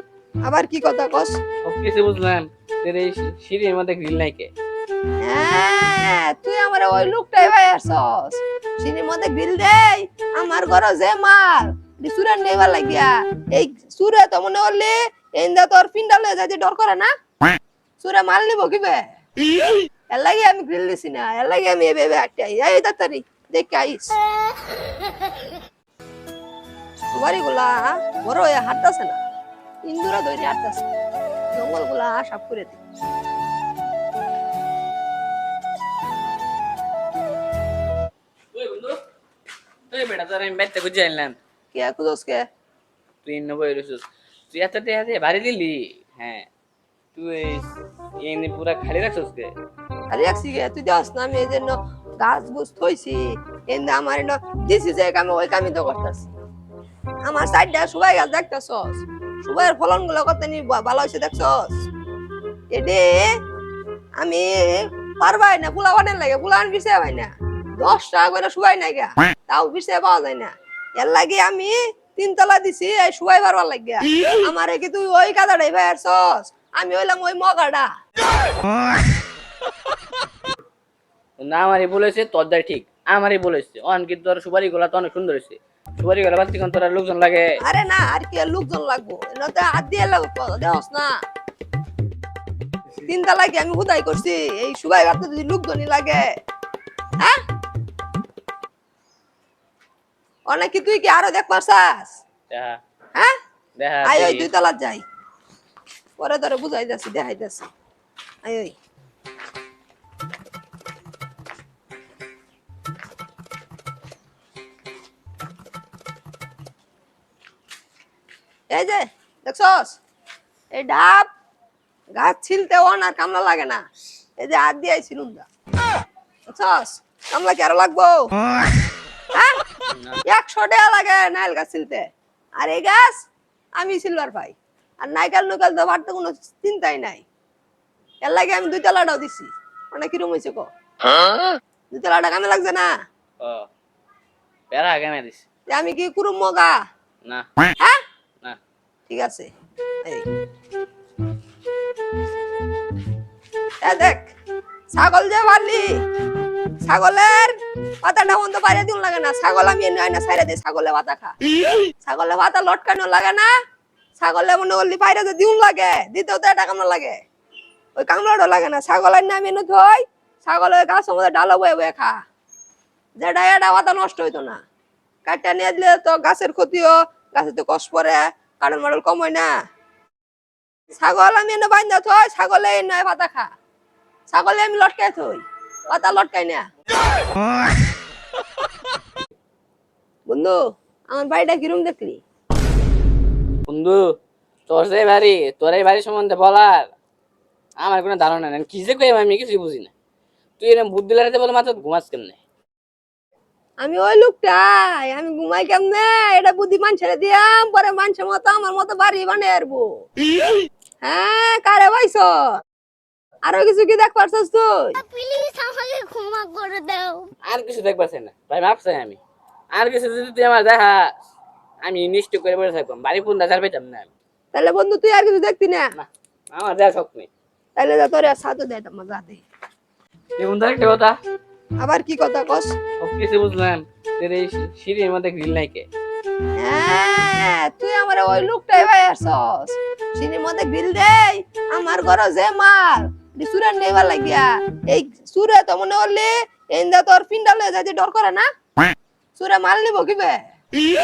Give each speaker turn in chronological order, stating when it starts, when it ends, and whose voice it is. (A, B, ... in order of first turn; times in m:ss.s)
0:00.4-0:01.4 A
0:01.6-0:04.5 B
0:05.2-0:17.1 A
0:18.0-0:19.0 A
0:20.1-0:24.2 A
0:27.1-0:29.2 A
0:29.9-0:30.9 A
0:31.5-0:32.8 A
0:38.5-0:39.0 B
0:39.9-0:41.4 B
0:41.7-0:42.4 A
0:43.2-0:46.5 B
0:47.1-0:49.5 B
0:50.1-0:56.3 A
0:57.2-1:01.8 A
1:02.7-1:03.3 A
1:04.2-1:17.9 A
1:21.4-1:27.6 B
1:27.6-1:31.1 A
1:33.0-1:36.2 A
1:40.5-1:42.1 A
1:42.5-1:42.8 B
1:43.8-1:44.5 B
1:44.0-1:45.0 A
1:46.2-1:47.7 A
1:48.4-1:48.7 A
1:58.7-2:00.0 A
2:00.7-2:01.3 A
2:02.2-2:03.8 A
2:04.4-2:05.5 A
2:06.5-2:08.2 A
2:09.9-2:10.2 B
2:10.3-2:12.0 A
2:12.6-2:13.2 A
2:13.8-2:17.2 A
2:18.2-2:20.7 A
2:21.9-2:22.9 A
2:23.4-2:23.7 B
2:24.7-2:25.4 B
2:25.7-2:26.7 A
2:29.1-2:29.5 A
2:33.8-2:34.3 A
2:34.9-2:35.8 A
2:36.8-2:41.3 A
2:42.0-2:43.5 A
2:44.2-2:47.2 A
2:48.0-2:52.2 A
2:53.2-2:54.6 A
2:55.2-2:59.5 A
3:01.0-3:03.5 A
3:04.3-3:06.6 A
3:10.3-3:10.6 A
3:11.1-3:12.2 A
3:13.7-3:14.1 B
3:14.7-3:16.9 B
3:17.8-3:19.9 B
3:20.6-3:22.4 B
3:23.8-3:30.0 A
3:31.0-3:32.5 A
3:33.5-3:35.0 A
3:35.0-3:37.3 C
3:37.4-3:39.2 B
3:39.7-3:41.1 B
3:41.8-3:44.1 B
3:44.5-3:45.9 A
3:45.9-3:47.3 B
3:47.8-3:49.4 A
3:50.4-3:51.2 B
3:51.8-3:52.7 A
3:53.0-3:55.9 B
3:56.6-4:08.4 A
4:09.4-4:10.4 A